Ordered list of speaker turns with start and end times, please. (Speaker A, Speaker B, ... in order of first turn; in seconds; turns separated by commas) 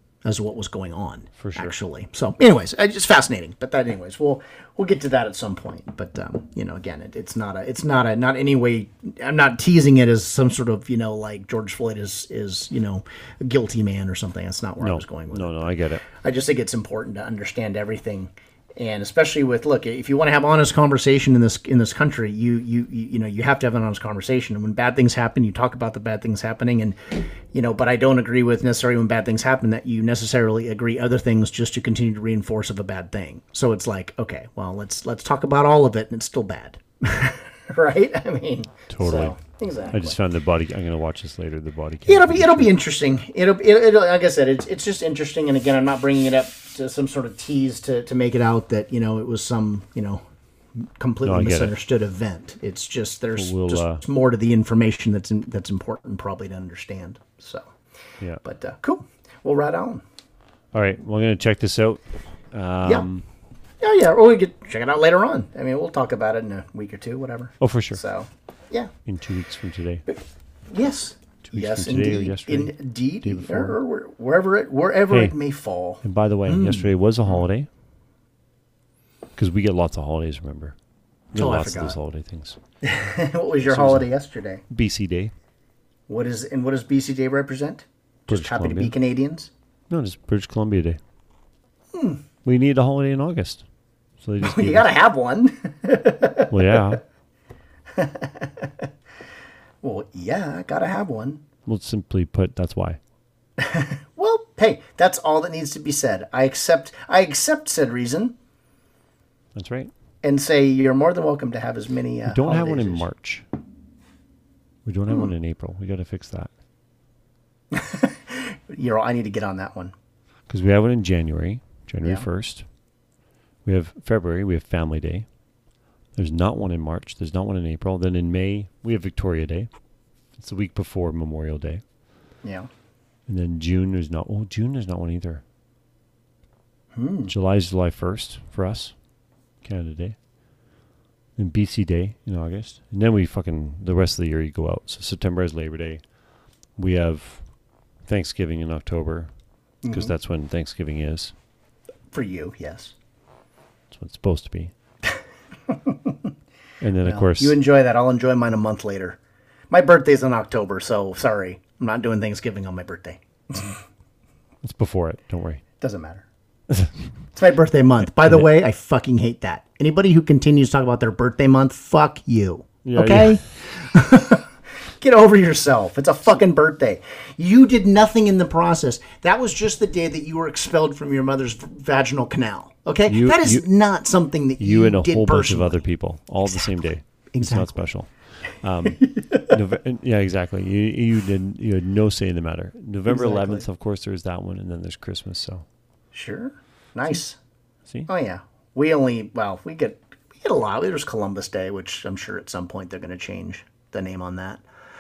Speaker A: 0.2-40.1, Speaker B: 1.4-1.8, Speaker B: 14.8-16.0, Speaker B: 38.9-39.4, Speaker B: 39.9-42.7, Speaker A: 42.0-50.2, Speaker A: 50.8-57.7, Speaker B: 51.2-51.7, Speaker B: 53.4-54.0, Speaker A: 58.4-60.0, Speaker B: 60.7-63.2, Speaker A: 63.8-68.9, Speaker B: 67.6-68.0, Speaker B: 69.0-70.0, Speaker A: 70.1-77.4, Speaker B: 71.4-73.8, Speaker B: 75.1-75.3, Speaker B: 76.0-77.7, Speaker B: 79.3-80.8, Speaker B: 81.3-82.6, Speaker A: 81.3-82.0, Speaker A: 82.8-84.6, Speaker B: 83.7-84.1, Speaker B: 84.7-85.3, Speaker A: 86.1-89.5, Speaker B: 88.3-88.9, Speaker B: 89.9-91.0, Speaker A: 91.9-92.2, Speaker B: 92.4-93.6, Speaker B: 94.2-94.9, Speaker A: 94.4-96.8, Speaker B: 96.5-97.0, Speaker A: 97.9-98.9, Speaker A: 99.8-101.4, Speaker B: 101.7-103.0, Speaker A: 103.6-108.3, Speaker B: 109.5-109.9, Speaker A: 110.2-113.1, Speaker B: 112.2-113.5, Speaker B: 114.8-116.5, Speaker A: 117.7-119.9, Speaker B: 120.5-122.7, Speaker B: 123.6-125.3, Speaker B: 126.1-129.7, Speaker B: 130.3-131.8, Speaker A: 132.4-132.7, Speaker B: 133.3-135.4, Speaker A: 136.9-137.3, Speaker B: 137.3-139.0, Speaker B: 139.6-140.2, Speaker B: 141.4-146.1, Speaker B: 146.7-149.3, Speaker A: 149.8-150.1, Speaker B: 149.8-151.3, Speaker A: 152.1-152.9, Speaker B: 153.9-154.7, Speaker A: 155.7-156.2, Speaker B: 156.8-157.6, Speaker A: 157.0-159.2, Speaker A: 159.7-163.8, Speaker B: 164.6-165.6, Speaker A: 165.8-166.2, Speaker B: 166.7-167.1, Speaker A: 167.3-185.8, Speaker B: 172.8-173.4, Speaker B: 183.1-183.7, Speaker B: 184.6-195.6, Speaker A: 186.4-187.9, Speaker A: 189.0-189.6, Speaker A: 193.1-193.7, Speaker A: 196.1-197.4, Speaker A: 198.1-204.6